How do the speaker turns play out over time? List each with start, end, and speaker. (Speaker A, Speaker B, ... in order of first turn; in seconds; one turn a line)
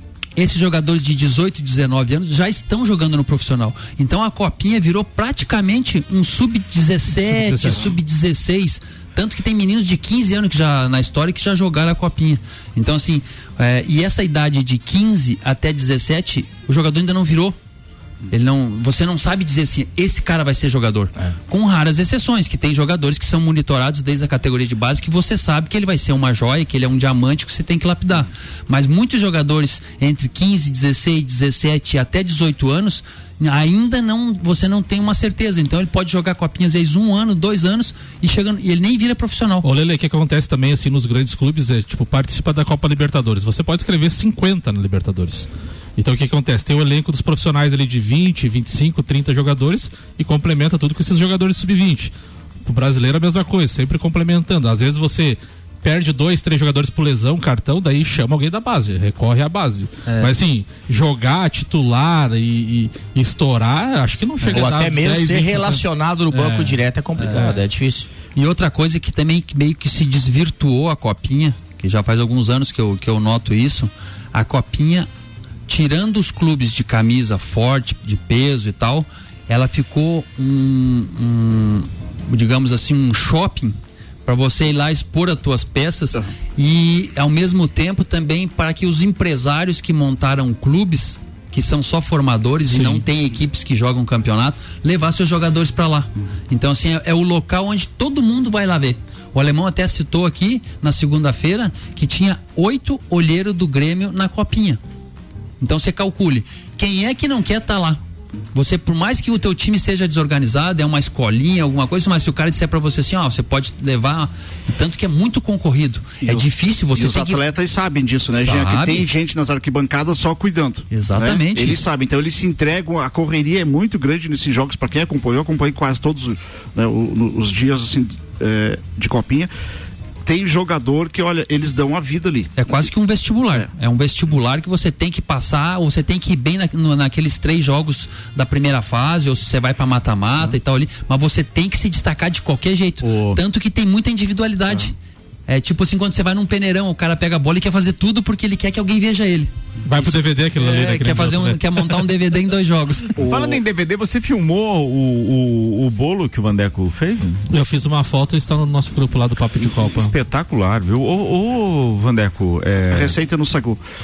Speaker A: 0.4-17.6
Speaker B: 7.2-7.9
Speaker A: 18.3-39.7
Speaker B: 39.6-52.1
Speaker B: 52.6-66.8
Speaker A: 60.0-60.3
Speaker C: 64.4-68.1
Speaker A: 67.2-67.6
Speaker A: 68.3-75.1
Speaker A: 75.7-104.8
Speaker B: 92.7-93.0
Speaker A: 105.6-108.0
Speaker A: 108.5-117.4
Speaker D: 116.2-129.5
Speaker A: 118.3-119.1
Speaker A: 120.9-121.8
Speaker D: 130.2-132.6
Speaker A: 132.6-144.9
Speaker E: 143.0-143.4
Speaker A: 145.5-153.1
Speaker B: 149.8-152.0
Speaker D: 153.2-153.6
Speaker E: 153.2-157.4
Speaker B: 157.5-160.1
Speaker E: 159.6-163.1
Speaker D: 162.9-163.8